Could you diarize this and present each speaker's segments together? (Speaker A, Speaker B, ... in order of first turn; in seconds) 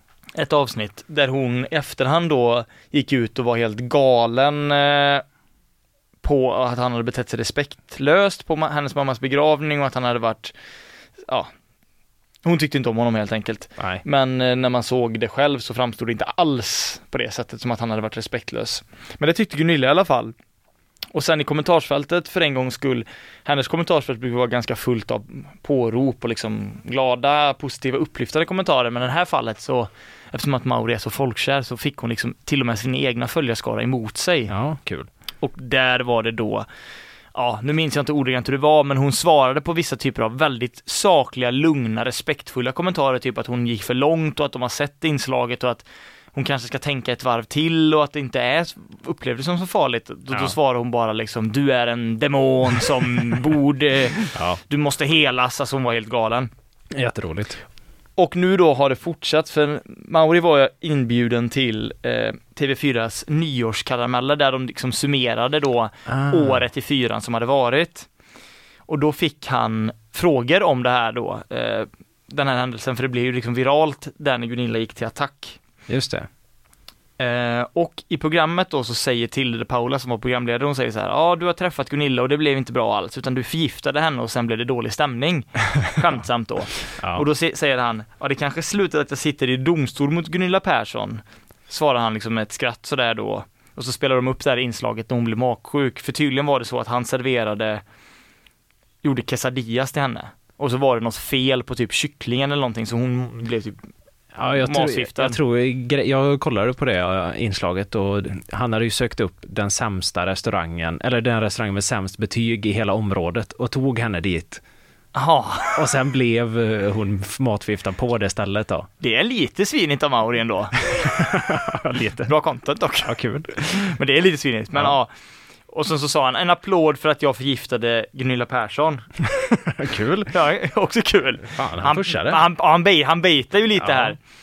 Speaker A: 0.3-5.2, 6.2-10.5, 12.4-20.3, 21.1-34.5, 35.4-36.7, 37.3-56.5, 58.2-68.1, 68.9-75.6, 77.2-97.8, 99.0-103.8, 104.6-105.4, 115.1-115.8, 119.0-121.1, 122.2-125.1, 125.7-129.1, 130.3-134.2
Speaker B: 13.8-14.0, 34.5-35.1, 50.3-50.5, 54.3-54.6, 56.9-57.6, 66.1-66.6, 75.9-76.3, 87.0-87.2, 104.3-114.6, 115.7-118.9, 121.0-122.3, 123.0-123.9, 129.7-130.3, 131.4-132.4, 133.8-134.2